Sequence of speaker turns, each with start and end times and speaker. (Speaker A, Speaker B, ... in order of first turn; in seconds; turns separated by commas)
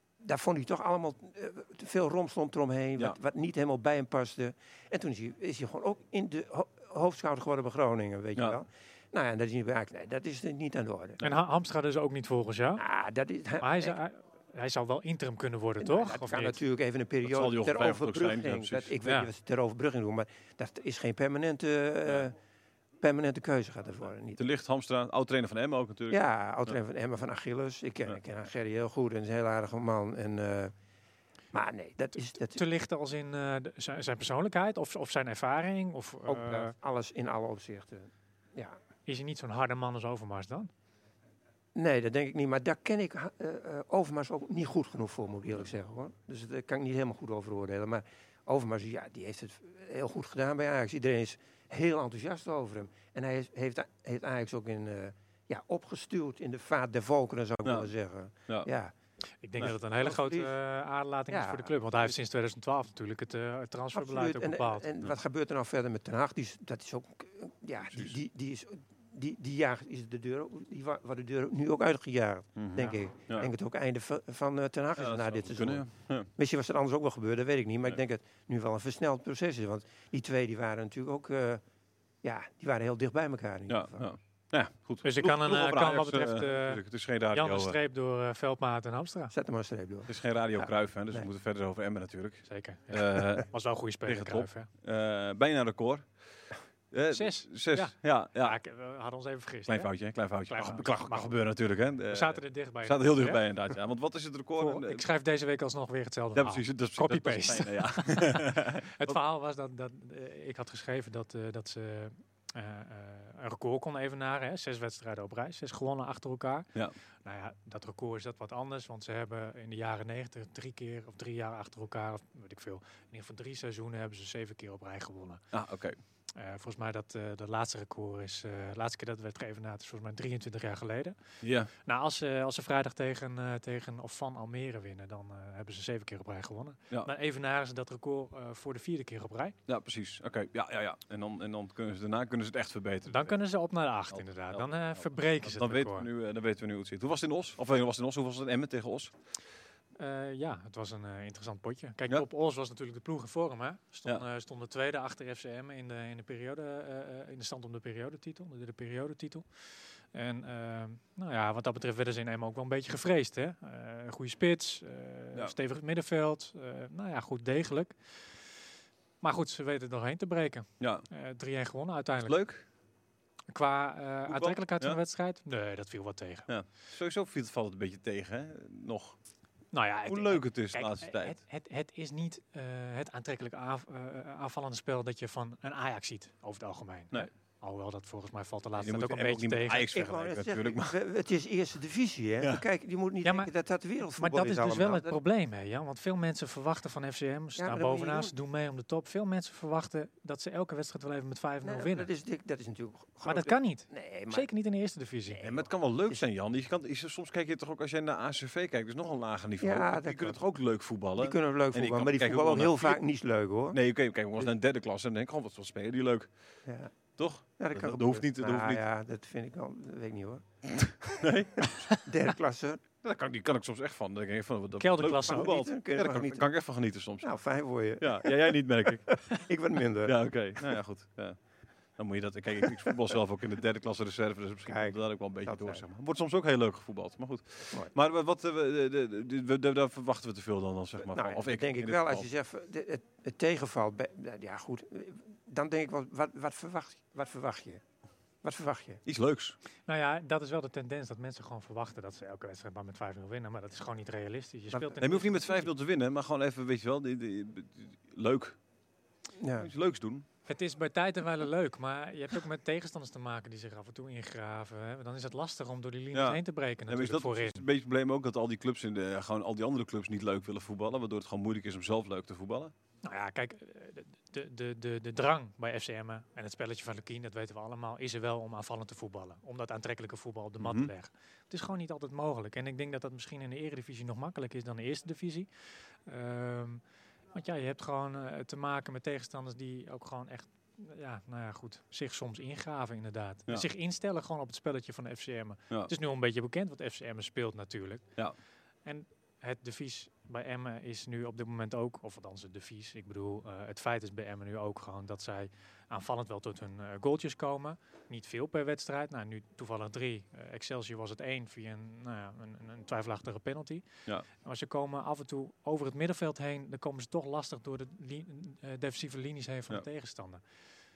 Speaker A: 0.2-11.2, Speaker B: 11.2-12.8, Speaker A: 12.8-14.0, Speaker B: 13.6-16.6, Speaker A: 15.8-22.3, Speaker C: 17.2-18.9, Speaker B: 19.0-19.3, Speaker A: 23.0-24.4, Speaker C: 24.4-26.7, Speaker A: 26.1-30.7, Speaker A: 31.5-32.6, Speaker B: 32.2-36.7, Speaker A: 36.3-38.8, Speaker B: 39.1-40.7, Speaker A: 41.7-58.9, Speaker C: 57.6-57.9, Speaker B: 59.4-64.9, Speaker A: 59.6-60.5, Speaker A: 61.3-62.1, Speaker A: 63.9-75.8, Speaker C: 67.9-68.2, Speaker C: 72.6-73.5, Speaker C: 75.0-76.3, Speaker A: 76.3-81.6, Speaker A: 82.2-84.0, Speaker C: 83.7-87.8, Speaker B: 85.0-86.8, Speaker B: 87.3-89.3, Speaker A: 89.3-91.2, Speaker C: 90.1-93.5, Speaker B: 92.5-94.7, Speaker C: 94.0-96.1, Speaker C: 96.9-98.5, Speaker B: 97.1-99.9, Speaker C: 99.7-105.0, Speaker B: 100.5-101.3, Speaker B: 102.1-103.4, Speaker B: 104.6-116.7, Speaker C: 106.3-109.2, Speaker B: 117.2-125.4, Speaker C: 125.5-126.0, Speaker B: 126.3-131.2, Speaker C: 131.4-131.7, Speaker B: 131.8-139.6, Speaker C: 139.7-143.4, Speaker B: 143.1-146.1, Speaker C: 144.1-149.1, Speaker B: 150.0-159.4, Speaker B: 160.1-167.9, Speaker B: 169.2-172.4, Speaker C: 170.8-171.1, Speaker C: 172.2-172.6, Speaker B: 173.5-176.5, Speaker C: 174.3-175.0, Speaker C: 176.5-179.2, Speaker B: 179.7-189.9, Speaker C: 180.1-181.4, Speaker C: 188.8-191.0, Speaker A: 189.9-195.2, Speaker B: 193.2-193.5, Speaker B: 194.2-202.1, Speaker A: 197.6-198.3, Speaker A: 201.6-204.5, Speaker B: 203.2-205.4, Speaker A: 205.3-206.2, Speaker C: 205.4-213.0, Speaker A: 209.6-210.4, Speaker A: 211.2-213.8, Speaker C: 213.7-216.3, Speaker A: 216.7-216.9, Speaker C: 217.2-218.8, Speaker A: 217.6-222.8, Speaker C: 220.8-221.9, Speaker C: 223.0-227.3, Speaker B: 224.8-225.5, Speaker A: 225.0-226.5, Speaker A: 227.2-228.5, Speaker C: 228.0-229.2, Speaker A: 229.1-230.2, Speaker C: 230.1-231.4, Speaker C: 232.0-242.3, Speaker A: 234.7-235.8, Speaker A: 241.1-247.8, Speaker A: 248.4-249.0, Speaker C: 249.1-249.6, Speaker B: 249.9-255.7, Speaker C: 255.0-258.6, Speaker A: 259.4-259.7, Speaker C: 259.6-260.2, Speaker B: 260.5-267.6, Speaker C: 266.1-272.7, Speaker B: 273.0-285.5, Speaker C: 280.6-280.9, Speaker B: 286.1-286.8, Speaker B: 287.3-298.0, Speaker B: 298.8-313.9, Speaker B: 314.4-320.4